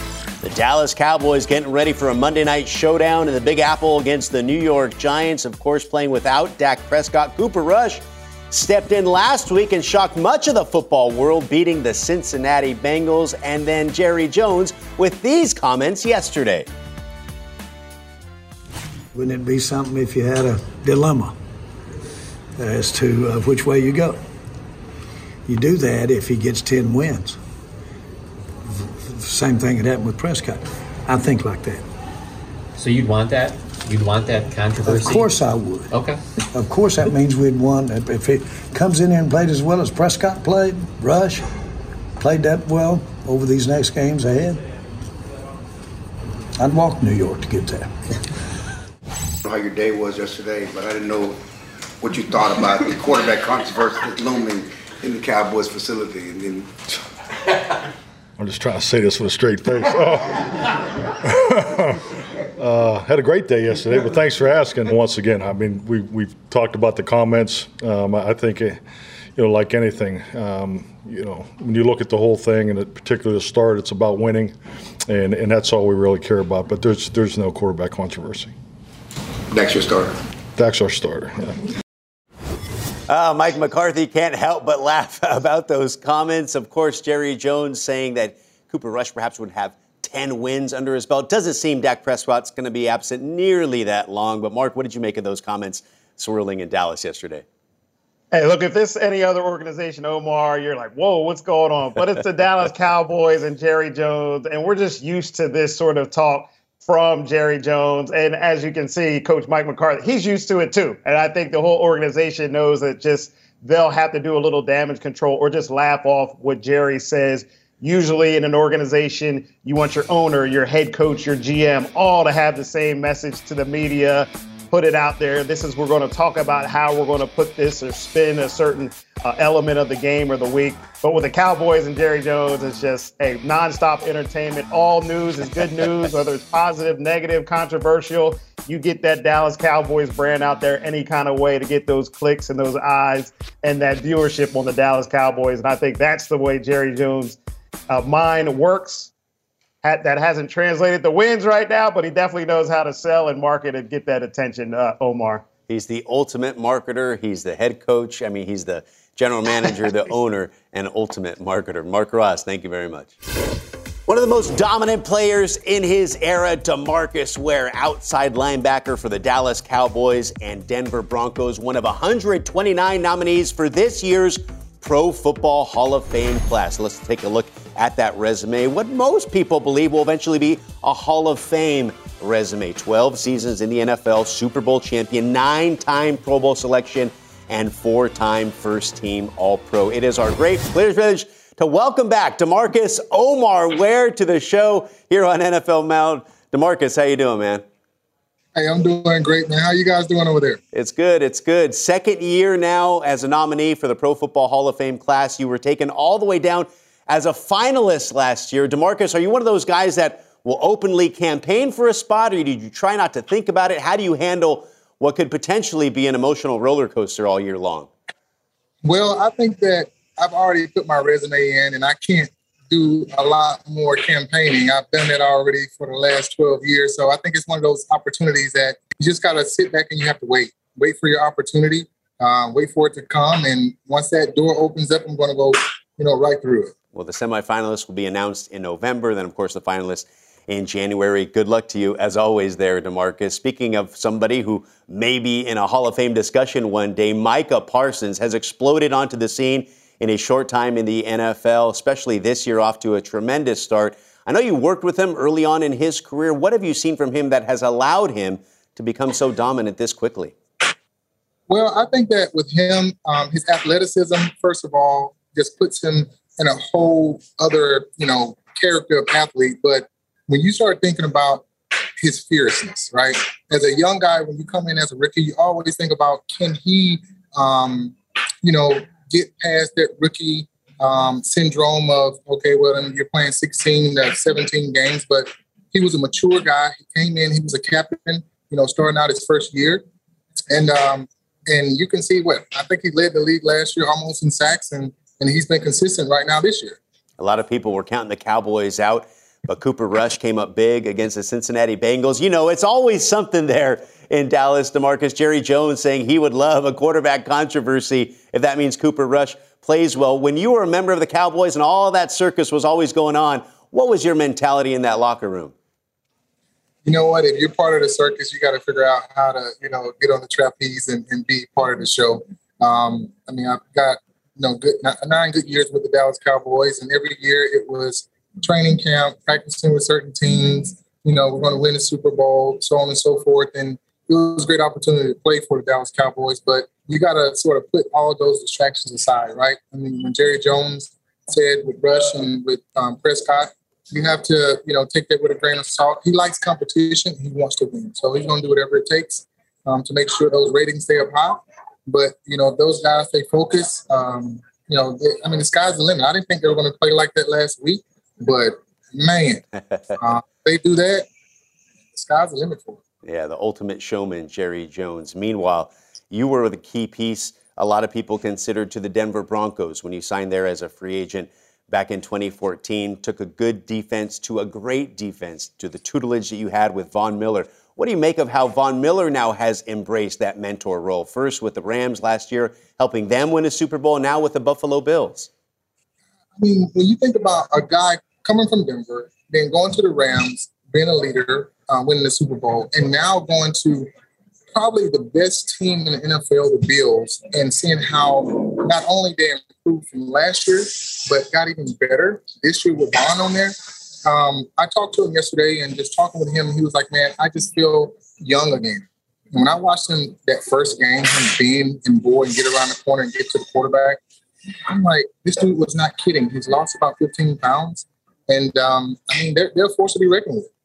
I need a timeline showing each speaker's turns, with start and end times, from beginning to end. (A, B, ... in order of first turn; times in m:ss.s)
0:00.4-0:16.7 A
0:19.1-0:21.3 B
0:22.6-0:24.2 B
0:25.5-0:27.4 B
0:28.8-0:31.8 B
0:32.8-0:35.3 C
0:34.8-0:36.0 B
0:35.9-0:36.2 C
0:36.5-0:41.4 B
0:42.2-0:44.6 B
0:46.6-0:48.0 B
0:49.4-0:51.4 D
0:52.0-0:56.7 D
0:58.4-1:00.7 E
1:01.2-1:02.0 E
1:02.6-1:08.8 E
1:09.4-1:14.5 E
1:15.1-1:18.5 E
1:19.5-1:20.2 D
1:20.6-1:21.6 E
1:23.1-1:37.4 A
1:38.3-2:27.4 F
2:27.9-2:29.1 F
2:29.8-2:35.4 F
2:35.7-2:43.2 A
2:44.1-3:17.6 A
3:18.5-3:20.6 G
3:20.7-3:37.9 A
3:38.8-3:56.7 G
3:56.9-4:20.4 A
4:21.5-4:31.4 G
4:32.0-4:49.8 G
4:50.5-4:56.8 G
4:57.2-5:15.5 A
5:16.8-5:59.4 G
6:00.0-6:01.0 G
6:01.9-6:02.8 G
6:03.0-6:25.3 A
6:26.4-6:33.9 G
6:34.5-6:54.0 G
6:54.7-7:00.5 G